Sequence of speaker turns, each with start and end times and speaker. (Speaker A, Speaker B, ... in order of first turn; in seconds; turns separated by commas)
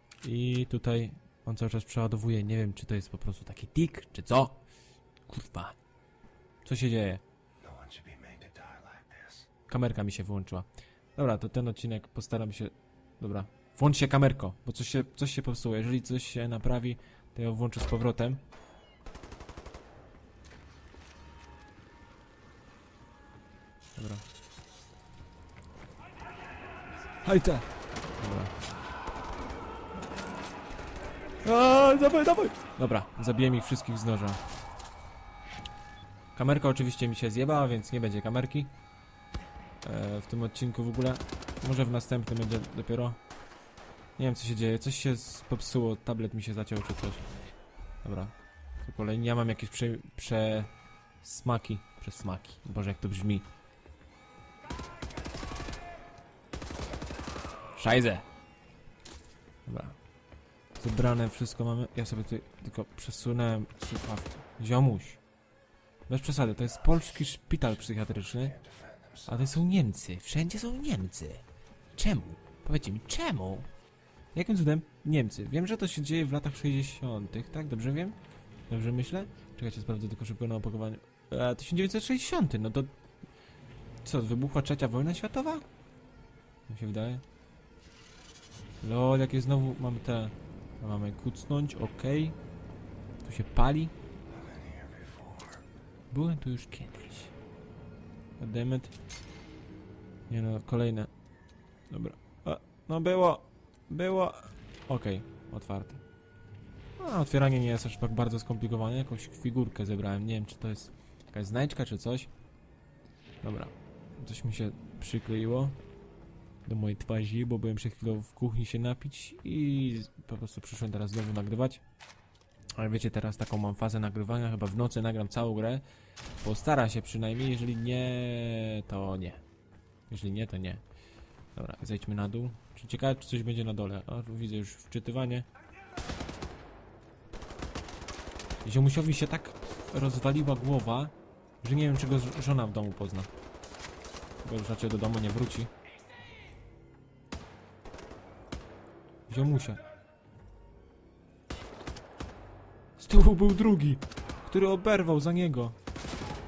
Speaker A: 0.2-4.6, Speaker A: 5.3-5.8, Speaker A: 6.6-7.2, Speaker B: 7.6-9.5, Speaker A: 9.7-18.4, Speaker A: 24.0-24.2, Speaker A: 27.2-28.5, Speaker A: 31.4-34.4, Speaker A: 36.4-38.7, Speaker A: 39.8-43.2, Speaker A: 44.2-47.3, Speaker A: 48.0-53.5, Speaker A: 57.8-58.3, Speaker A: 59.7-60.0, Speaker A: 60.8-65.2, Speaker A: 66.1-68.6, Speaker B: 68.0-69.6, Speaker A: 69.3-71.4, Speaker A: 72.0-73.7, Speaker A: 74.3-78.2, Speaker A: 78.7-83.0, Speaker A: 84.0-85.7, Speaker A: 86.7-87.2, Speaker A: 88.8-92.4, Speaker A: 93.2-93.9, Speaker B: 94.3-95.6, Speaker A: 96.1-97.3, Speaker A: 98.4-98.9, Speaker A: 100.3-101.1, Speaker A: 101.9-106.0, Speaker A: 107.0-112.3, Speaker A: 113.4-115.8, Speaker A: 116.7-121.8, Speaker A: 122.8-125.8, Speaker A: 126.4-129.4, Speaker A: 130.1-130.8, Speaker A: 131.6-135.5, Speaker A: 138.6-143.3, Speaker A: 144.4-145.7, Speaker A: 149.3-149.8, Speaker A: 153.0-155.8